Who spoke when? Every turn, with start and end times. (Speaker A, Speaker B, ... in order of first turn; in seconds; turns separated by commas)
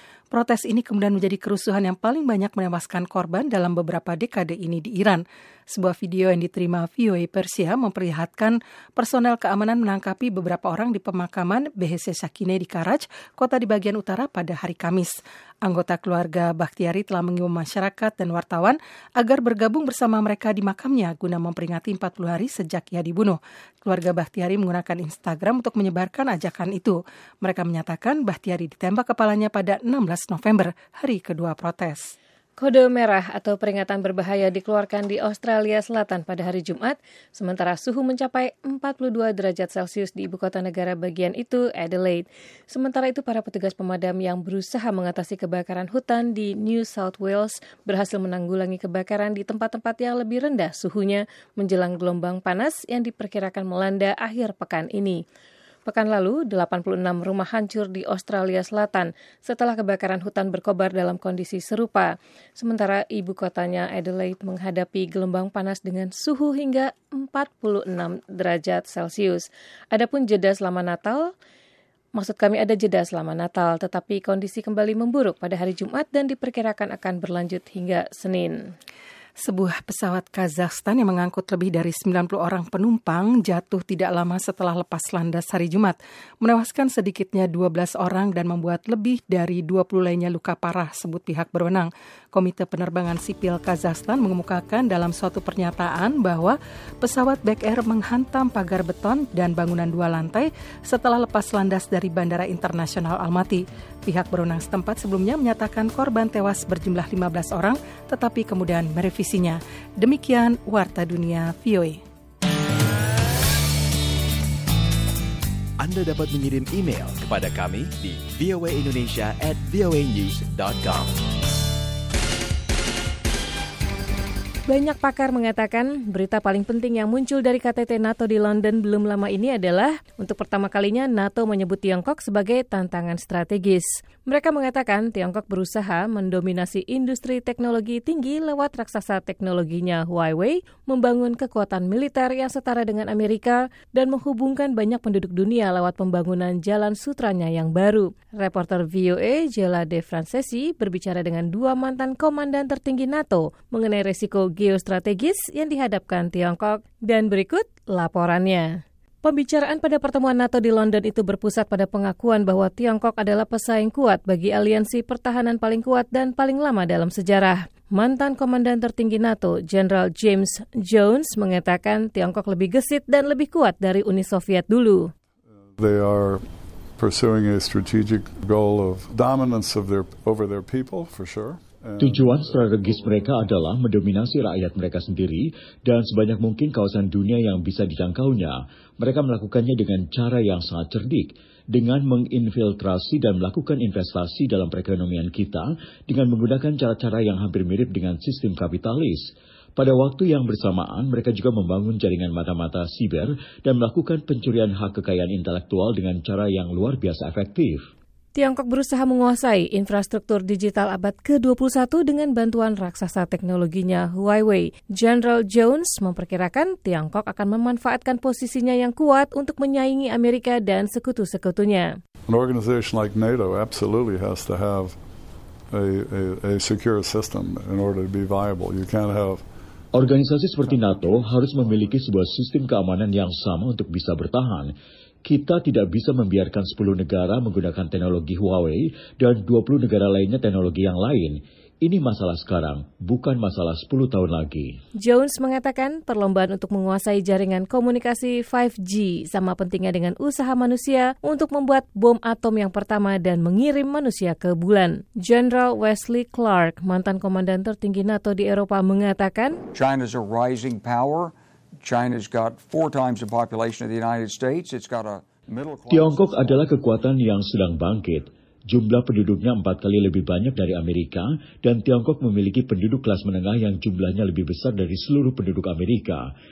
Speaker A: 0.3-32.1, Speaker B: 32.6-55.2, Speaker B: 55.9-71.3, Speaker B: 72.2-78.6, Speaker A: 79.4-112.0, Speaker C: 115.8-121.2, Speaker B: 124.7-158.7, Speaker B: 159.2-175.1, Speaker D: 175.7-183.3, Speaker E: 182.0-199.2, Speaker E: 199.8-207.8, Speaker B: 208.3-221.9, Speaker D: 222.3-225.0, Speaker D: 225.7-229.4, Speaker E: 230.0-234.7, Speaker E: 235.3-244.7, Speaker B: 245.0-259.6, Speaker F: 259.7-266.7, Speaker E: 265.9-268.2, Speaker E: 268.7-276.2